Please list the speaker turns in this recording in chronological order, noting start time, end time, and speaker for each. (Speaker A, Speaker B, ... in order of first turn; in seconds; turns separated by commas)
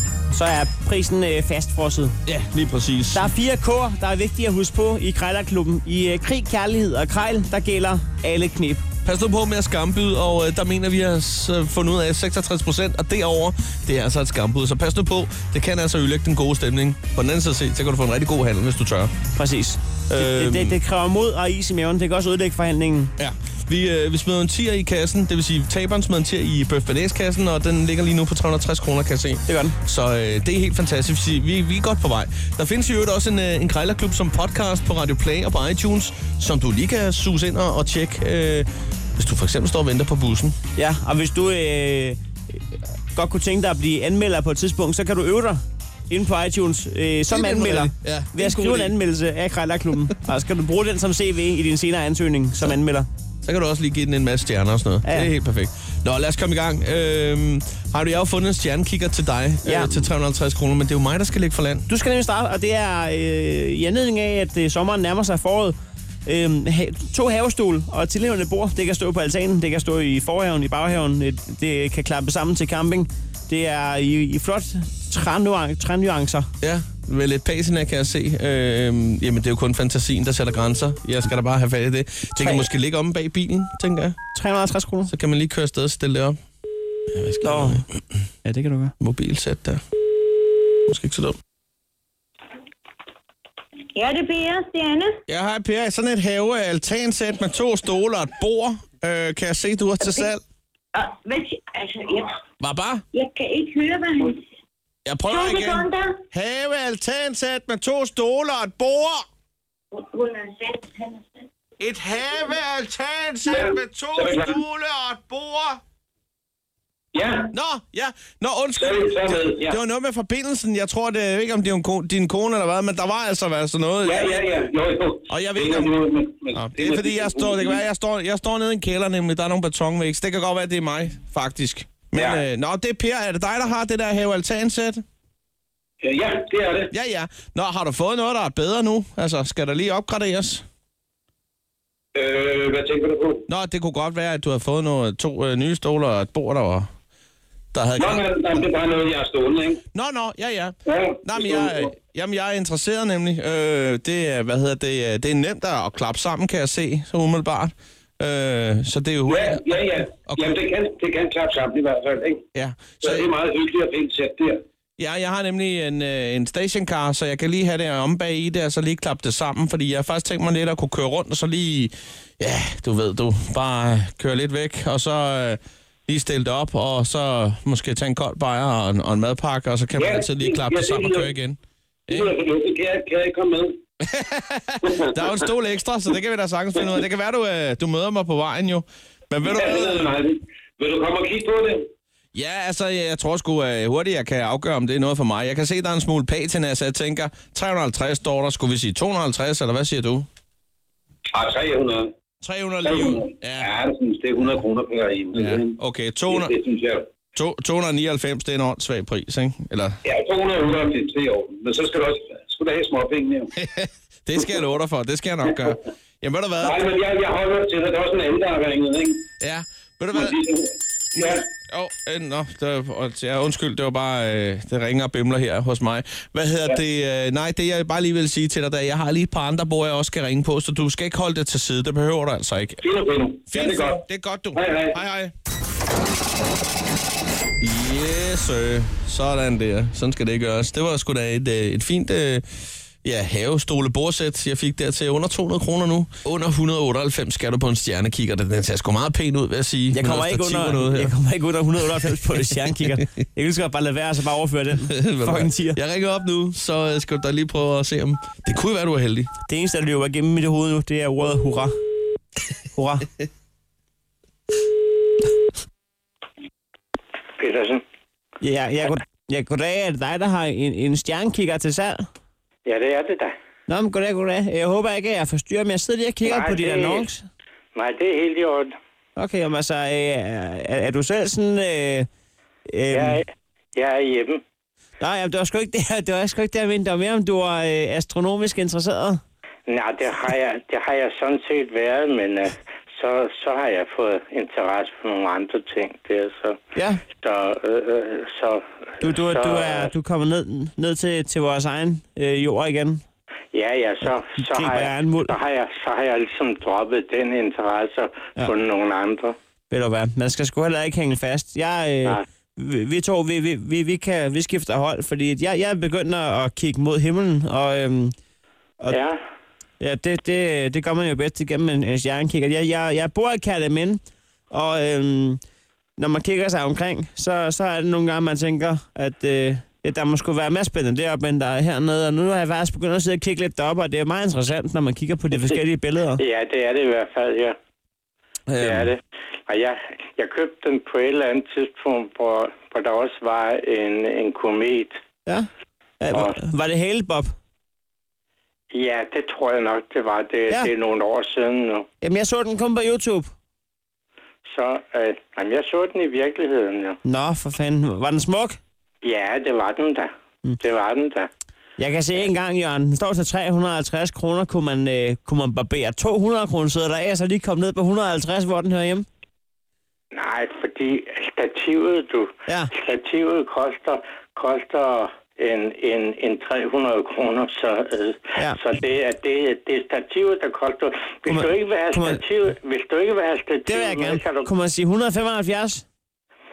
Speaker A: 0.3-2.1, Speaker B: 2.2-3.3, Speaker A: 3.1-8.8, Speaker B: 9.0-19.1, Speaker A: 19.3-23.1, Speaker B: 20.1-20.8, Speaker B: 23.2-40.5, Speaker A: 29.4-29.8, Speaker A: 40.8-42.2, Speaker A: 43.1-53.1, Speaker B: 47.3-48.9, Speaker B: 53.4-61.8, Speaker A: 55.0-55.3, Speaker A: 59.6-60.1, Speaker A: 61.9-65.7, Speaker A: 66.2-76.5, Speaker B: 76.6-84.2, Speaker A: 82.4-82.7, Speaker A: 84.3-85.1, Speaker B: 85.1-86.4, Speaker B: 87.1-87.8, Speaker A: 87.4-87.8, Speaker A: 88.4-88.9, Speaker B: 89.0-89.8, Speaker B: 90.9-91.3, Speaker C: 93.9-95.2, Speaker B: 95.3-100.4, Speaker C: 100.9-102.3, Speaker B: 102.6-103.0, Speaker C: 103.1-104.4, Speaker B: 105.0-109.2, Speaker C: 105.3-106.2, Speaker C: 109.9-111.2, Speaker B: 111.8-115.8, Speaker D: 113.5-114.6, Speaker D: 117.1-117.5, Speaker B: 117.5-124.4, Speaker D: 118.8-119.8, Speaker D: 124.0-127.8, Speaker B: 125.3-125.9, Speaker B: 126.5-135.0, Speaker D: 132.1-132.4, Speaker D: 136.0-136.9, Speaker B: 136.9-140.6, Speaker D: 142.1-143.4, Speaker B: 143.5-146.9, Speaker B: 147.7-148.2, Speaker D: 148.0-149.8, Speaker B: 149.9-159.6, Speaker D: 150.9-151.8, Speaker D: 159.3-162.4, Speaker B: 160.2-160.5, Speaker B: 162.5-163.3, Speaker D: 163.0-164.6, Speaker B: 165.0-182.3, Speaker D: 179.9-181.3, Speaker D: 182.1-183.8, Speaker B: 184.0-190.1, Speaker D: 184.8-185.1, Speaker D: 189.4-191.9, Speaker B: 192.3-200.3, Speaker D: 201.3-202.1, Speaker B: 202.4-203.7, Speaker D: 202.8-205.8, Speaker B: 205.3-206.5, Speaker D: 206.3-207.1, Speaker B: 207.3-210.0, Speaker D: 210.0-213.5, Speaker B: 213.5-216.8, Speaker D: 216.6-219.2, Speaker B: 219.4-220.4, Speaker D: 220.1-221.4, Speaker B: 221.1-232.8, Speaker D: 232.8-234.0, Speaker B: 233.5-235.3, Speaker D: 234.5-235.0, Speaker B: 237.6-242.4, Speaker B: 243.0-251.1, Speaker A: 249.9-255.8, Speaker B: 254.8-259.3, Speaker A: 259.5-261.7, Speaker A: 262.7-263.1, Speaker E: 267.4-267.8, Speaker A: 268.4-272.0, Speaker E: 272.6-273.3, Speaker A: 273.7-277.2, Speaker E: 276.2-277.1, Speaker E: 277.7-278.7, Speaker A: 279.1-282.1, Speaker A: 282.7-283.2, Speaker E: 282.9-283.2, Speaker E: 283.7-284.4, Speaker A: 285.0-289.2, Speaker E: 289.7-296.6, Speaker A: 296.7-297.0, Speaker E: 297.2-299.9, Speaker A: 299.0-303.0, Speaker E: 303.5-309.3, Speaker A: 304.5-305.3, Speaker A: 309.7-318.1, Speaker E: 318.9-319.1, Speaker A: 319.8-324.0, Speaker A: 324.5-325.4, Speaker A: 326.0-336.2, Speaker E: 336.2-337.6, Speaker A: 338.5-338.9, Speaker E: 338.6-344.9, Speaker A: 346.0-347.3, Speaker E: 348.7-351.9, Speaker A: 352.0-353.3, Speaker E: 354.4-357.0, Speaker A: 357.0-358.6, Speaker E: 359.0-360.1, Speaker E: 360.6-361.3, Speaker A: 361.8-369.1, Speaker E: 370.1-384.5, Speaker A: 381.3-382.2, Speaker A: 383.6-385.8